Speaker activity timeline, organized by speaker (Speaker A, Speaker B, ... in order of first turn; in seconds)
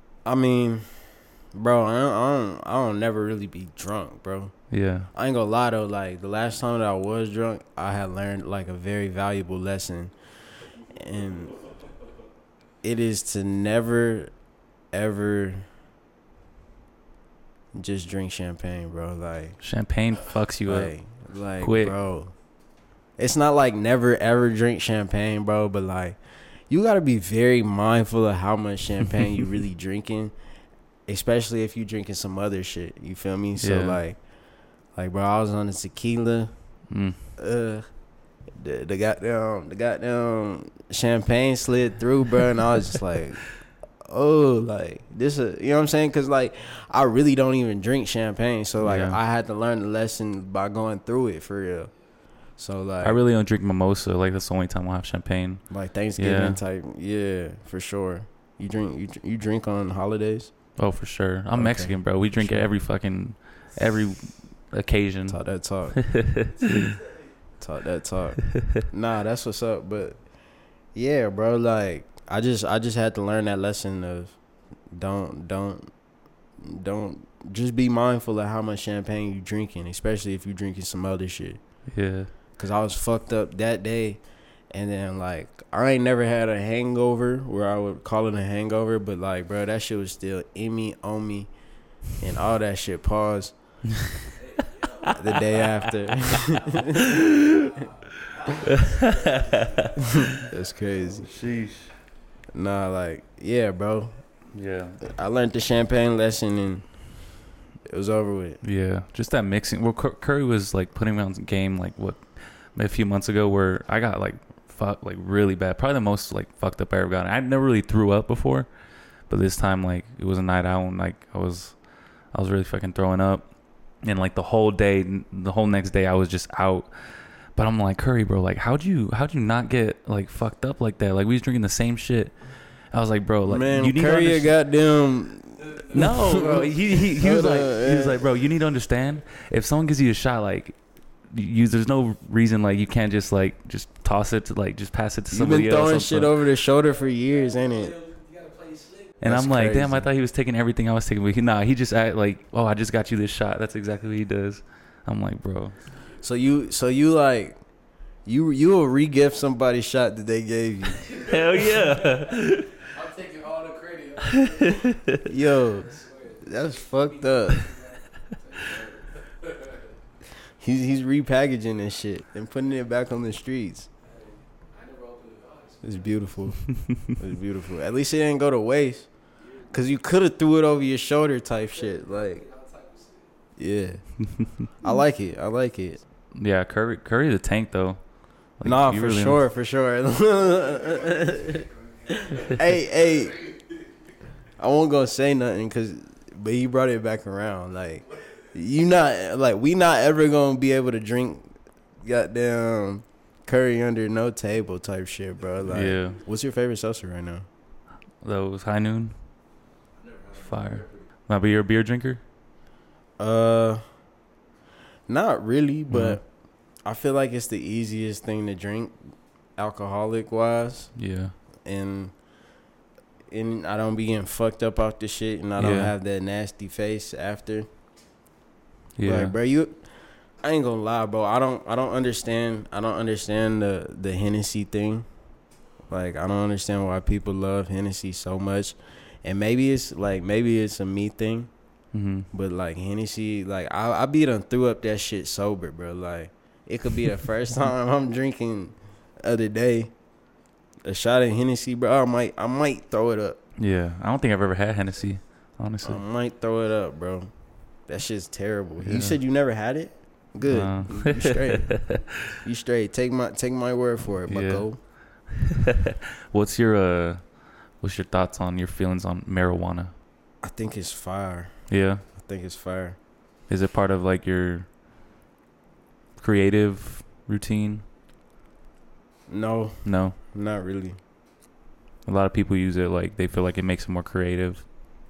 Speaker A: 0.2-11.7, 12.8-15.7, 17.7-19.6, 20.6-22.6, 23.2-30.3, 31.1-53.2, 55.7-60.8, 61.5-62.7, 65.3-66.4, 67.6-82.0, 82.5-94.0, 95.0-97.1, 100.3-101.3, 102.5-104.4, 105.0-108.6, 133.4-138.2, 145.3-148.0, 149.2-150.1, 156.2-161.3, 165.2-167.7, 170.6-173.9, 175.8-182.4, 183.6-186.0, 188.6-193.5, 194.6-207.4, 213.2-214.0, 215.1-222.3, 223.3-227.7, 229.0-235.2, 235.8-241.5, 242.3-250.0, 250.8-253.4, 255.8-264.8, 270.4-273.0, 279.3-281.0
Speaker B: 4.7-5.1, 19.6-22.0, 33.6-34.0, 36.9-37.2, 48.8-49.2, 53.0-56.6, 60.8-65.9, 66.5-67.0, 81.9-82.3, 99.0-99.9, 101.2-102.0, 104.5-105.0, 108.6-134.6, 135.9-146.4, 149.2-155.8, 161.2-162.7, 186.3-189.4, 205.7-206.2, 208.2-209.5, 210.3-212.2, 215.9-216.2, 220.9-221.3, 225.6-225.9, 228.9-229.3, 241.9-242.3, 253.6-256.0, 258.8-259.2, 260.4-261.1, 261.7-262.0, 264.2-265.3, 266.3-269.9, 271.7-272.0, 273.5-274.8, 276.2-277.8, 279.8-280.1, 282.0-284.7
Speaker C: 98.7-100.5, 147.0-149.2, 161.1-161.7, 162.8-169.9, 174.0-176.7, 179.4-179.7, 181.5-183.3